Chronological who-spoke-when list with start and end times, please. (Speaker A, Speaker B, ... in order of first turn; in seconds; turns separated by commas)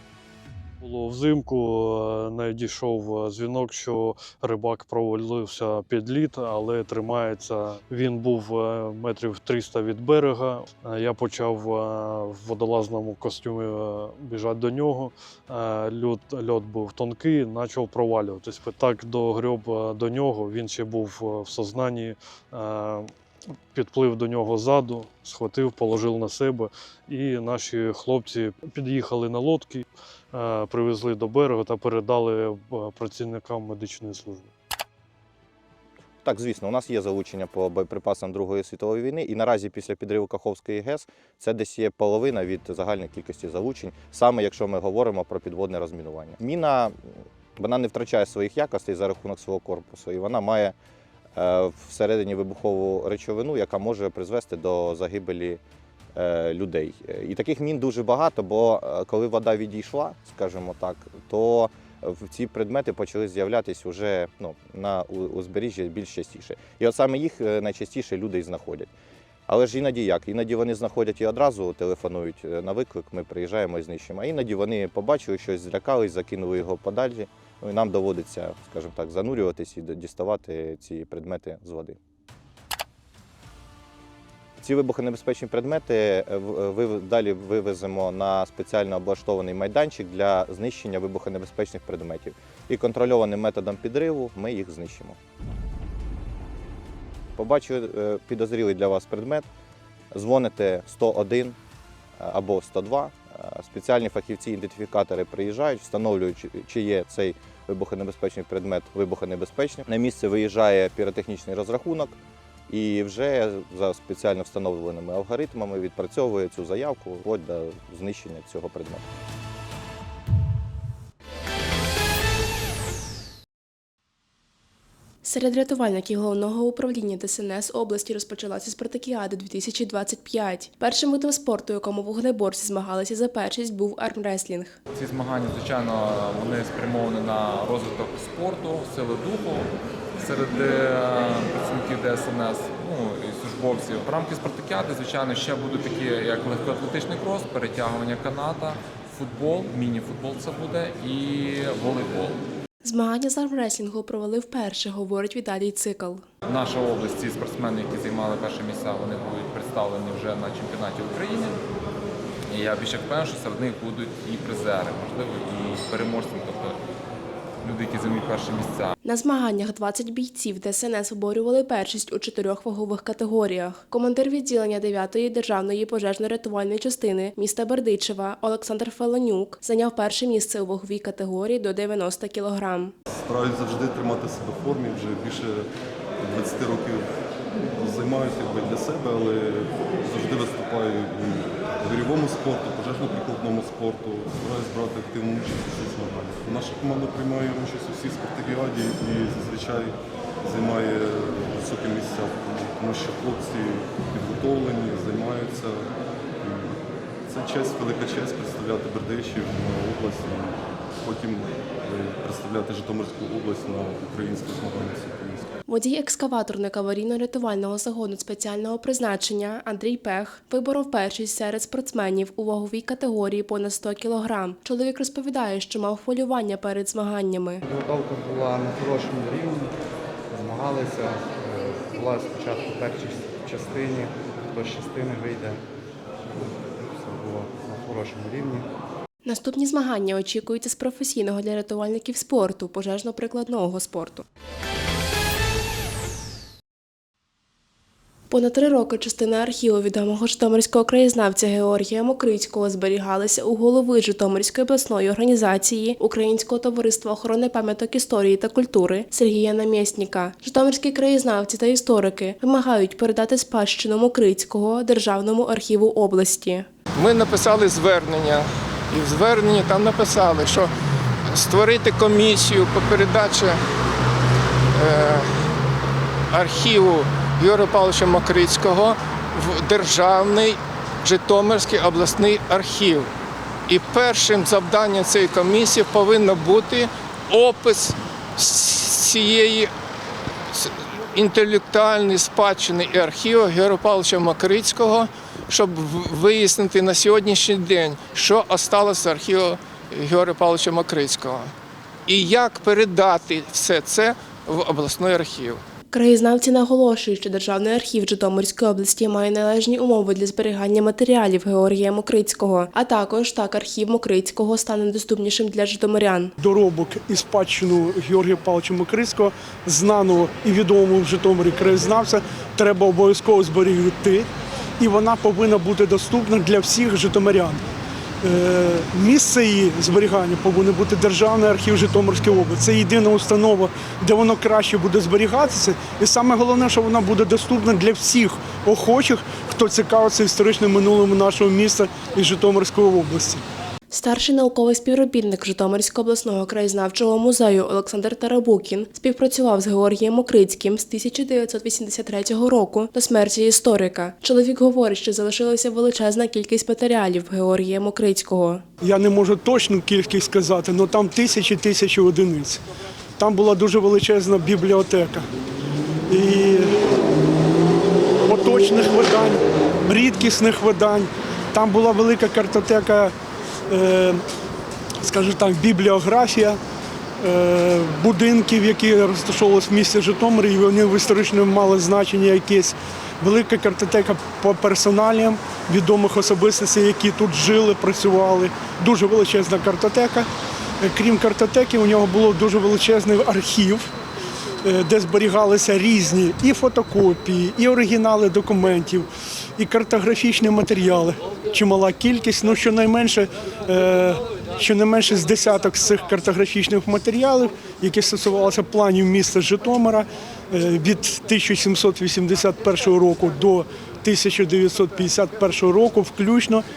Speaker A: 0.8-23.1, Speaker A: 23.7-34.5, Speaker B: 36.2-50.8, Speaker B: 51.4-55.6, Speaker B: 56.1-68.9, Speaker B: 69.5-82.0, Speaker B: 84.6-95.2, Speaker B: 97.4-99.5, Speaker B: 100.1-101.6, Speaker B: 102.2-119.1, Speaker C: 125.2-134.8, Speaker D: 134.9-152.4, Speaker C: 152.8-156.2, Speaker D: 156.5-161.6, Speaker D: 162.5-166.8, Speaker D: 167.6-168.9, Speaker C: 169.0-182.9, Speaker E: 183.2-215.6, Speaker C: 215.7-227.6, Speaker F: 227.6-229.7, Speaker F: 230.3-235.6, Speaker F: 236.3-238.7, Speaker C: 239.2-244.2, Speaker C: 248.3-266.7, Speaker G: 266.9-270.7, Speaker G: 271.3-273.6, Speaker G: 274.7-275.4, Speaker G: 276.3-283.1, Speaker G: 283.7-289.7, Speaker G: 290.5-301.5, Speaker G: 302.1-305.6, Speaker C: 305.9-316.3, Speaker H: 316.4-324.3, Speaker H: 324.8-327.6, Speaker H: 328.2-343.4, Speaker C: 343.9-358.6, Speaker H: 358.8-362.6, Speaker H: 363.2-365.3, Speaker H: 366.1-366.8, Speaker H: 368.3-373.1, Speaker H: 373.7-374.2, Speaker H: 375.0-376.6, Speaker H: 377.2-390.3, Speaker H: 390.8-393.9, Speaker H: 394.6-416.6